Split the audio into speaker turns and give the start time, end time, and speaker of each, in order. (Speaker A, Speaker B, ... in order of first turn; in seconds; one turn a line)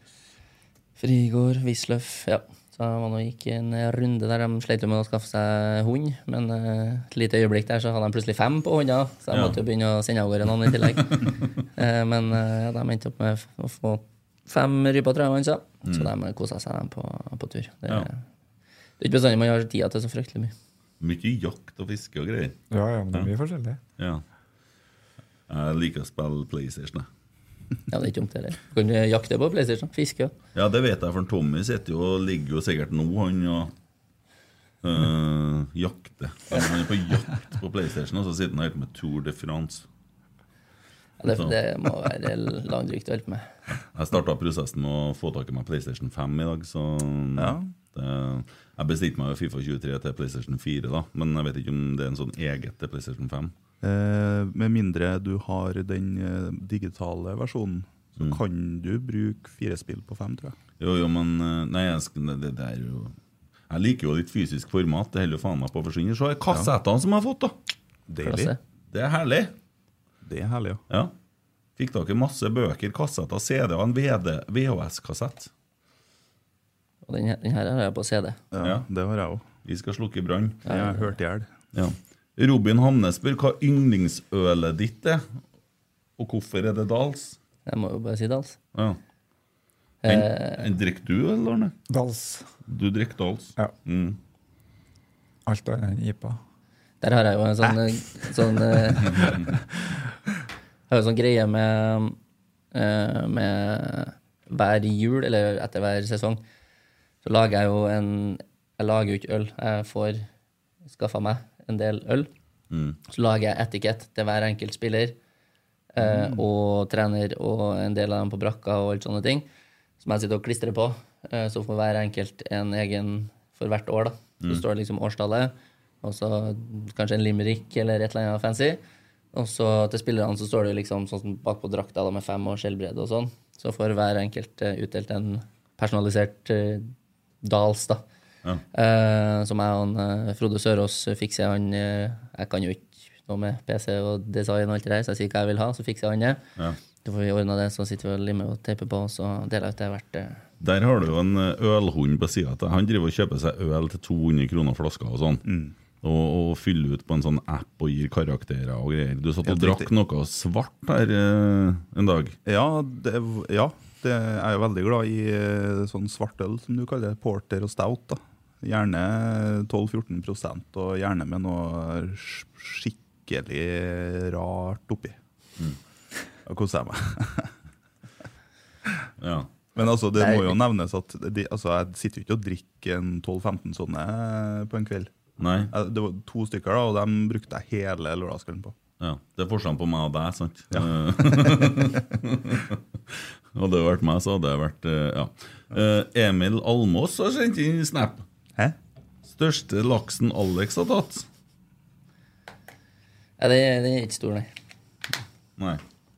Speaker A: 1.0-11.2
Speaker B: 9.3-9.6
Speaker B: 11.0-11.3
Speaker A: 11.8-18.2
Speaker A: 19.0-20.5
Speaker B: 21.0-22.5
Speaker C: 22.7-23.8
Speaker B: 24.0-24.2
Speaker B: 25.5-27.1
Speaker A: 27.9-30.3
Speaker B: 30.5-33.7
Speaker B: 34.8-39.9
Speaker A: 41.2-43.5
Speaker B: 41.3-41.5
Speaker B: 43.8-53.5
Speaker D: 47.4-47.7
Speaker D: 53.8-60.5
Speaker B: 60.8-63.1
Speaker B: 63.7-67.5
Speaker D: 68.1-68.5
Speaker A: 68.2-68.6
Speaker B: 68.9-69.5
Speaker D: 70.2-70.8
Speaker B: 71.8-75.5
Speaker A: 77.0-78.4
Speaker D: 78.5-79.4
Speaker B: 78.6-78.8
Speaker B: 79.6-80.6
Speaker A: 80.7-81.1
Speaker D: 80.7-81.5
Speaker B: 81.7-85.2
Speaker B: 86.2-87.4
Speaker A: 87.7-88.6
Speaker B: 88.7-89.0
Speaker A: 90.0-90.6
Speaker B: 90.0-91.7
Speaker C: 91.9-92.5
Speaker B: 92.7-94.2
Speaker C: 95.5-96.4
Speaker A: 97.0-99.3
Speaker A: 100.9-102.2
Speaker A: 102.7-106.4
Speaker A: 107.2-110.2
Speaker A: 110.9-112.3
Speaker B: 112.7-113.0
Speaker A: 113.1-115.2
Speaker A: 115.9-119.5
Speaker D: 116.0-116.5
Speaker A: 120.0-128.8
Speaker A: 129.3-138.0
Speaker A: 138.7-146.4
Speaker A: 147.0-150.4
Speaker B: 150.6-155.4
Speaker D: 155.4-155.7
Speaker B: 156.0-162.4
Speaker D: 159.4-159.9
Speaker D: 162.4-175.2
Speaker D: 176.4-177.5
Speaker B: 179.2-179.5
Speaker D: 179.7-185.1
Speaker A: 180.2-180.5
Speaker B: 185.4-185.7
Speaker D: 185.7-188.7
Speaker B: 189.0-198.2
Speaker D: 190.7-191.7
Speaker B: 199.3-201.2
Speaker A: 203.4-204.5